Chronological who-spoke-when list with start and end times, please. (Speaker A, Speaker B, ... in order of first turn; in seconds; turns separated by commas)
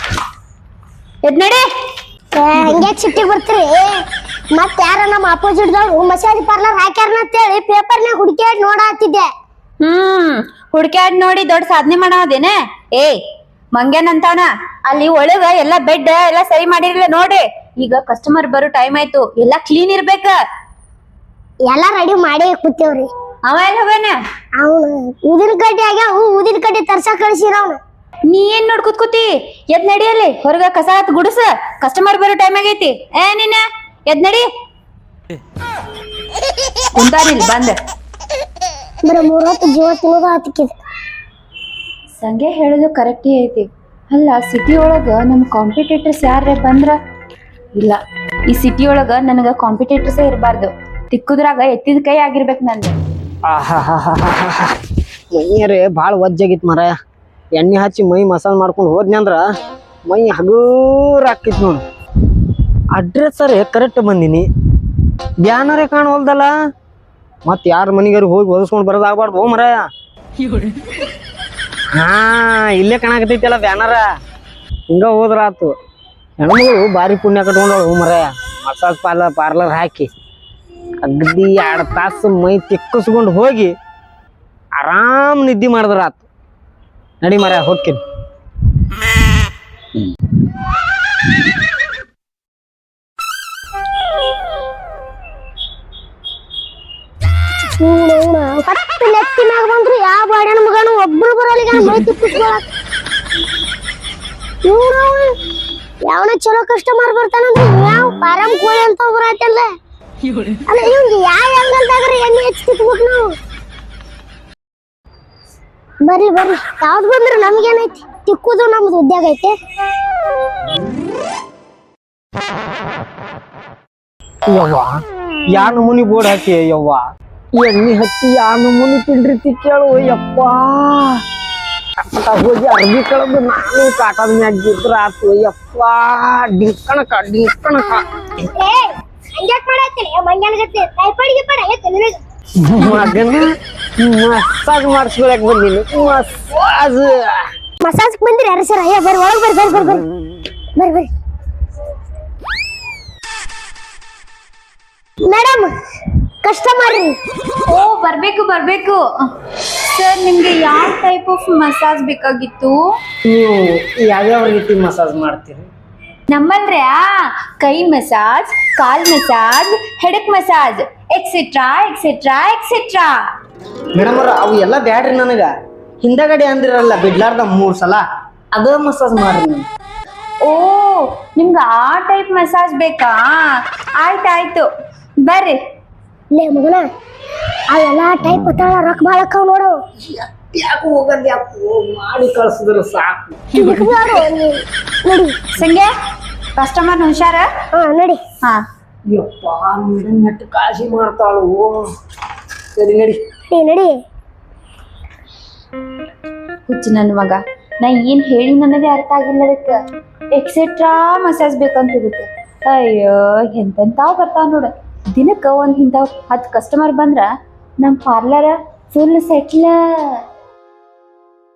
Speaker A: 1.2-1.7, Speaker B: 2.3-9.3, Speaker A: 9.8-13.2, Speaker A: 13.7-20.4, Speaker B: 21.7-23.1, Speaker A: 23.4-24.2, Speaker B: 24.6-27.8, Speaker A: 28.3-34.5, Speaker A: 36.9-37.8, Speaker B: 39.0-40.8, Speaker A: 42.2-47.0, Speaker A: 47.8-53.0, Speaker C: 53.5-54.7, Speaker C: 55.3-57.0, Speaker C: 57.5-59.4, Speaker C: 60.1-61.8, Speaker C: 62.9-64.5, Speaker C: 65.4-66.5, Speaker C: 67.4-69.9, Speaker C: 71.9-74.1, Speaker C: 74.9-75.7, Speaker C: 76.4-80.1, Speaker C: 81.0-83.7, Speaker C: 84.8-86.3, Speaker C: 87.2-88.0, Speaker B: 97.8-102.6, Speaker B: 104.6-105.4, Speaker B: 106.0-109.7, Speaker B: 110.7-113.3, Speaker B: 116.0-119.5, Speaker C: 124.5-127.0, Speaker C: 127.6-131.2, Speaker C: 132.0-138.0, Speaker B: 138.5-142.2, Speaker C: 142.6-147.4, Speaker B: 147.8-150.1, Speaker B: 150.8-151.1, Speaker B: 155.2-155.7, Speaker B: 156.4-157.2, Speaker A: 157.7-159.0, Speaker A: 159.8-162.8, Speaker C: 163.2-165.7, Speaker A: 166.3-173.2, Speaker C: 173.9-179.7, Speaker A: 180.4-184.7, Speaker A: 185.2-185.6, Speaker B: 186.3-186.9, Speaker B: 187.7-189.8, Speaker C: 190.1-193.4, Speaker B: 193.5-195.4, Speaker A: 195.6-195.9, Speaker A: 196.6-197.5, Speaker B: 197.7-198.2, Speaker C: 199.1-201.8, Speaker C: 202.8-203.2, Speaker B: 203.5-204.0, Speaker A: 206.7-209.8, Speaker A: 210.3-217.3, Speaker A: 217.8-220.2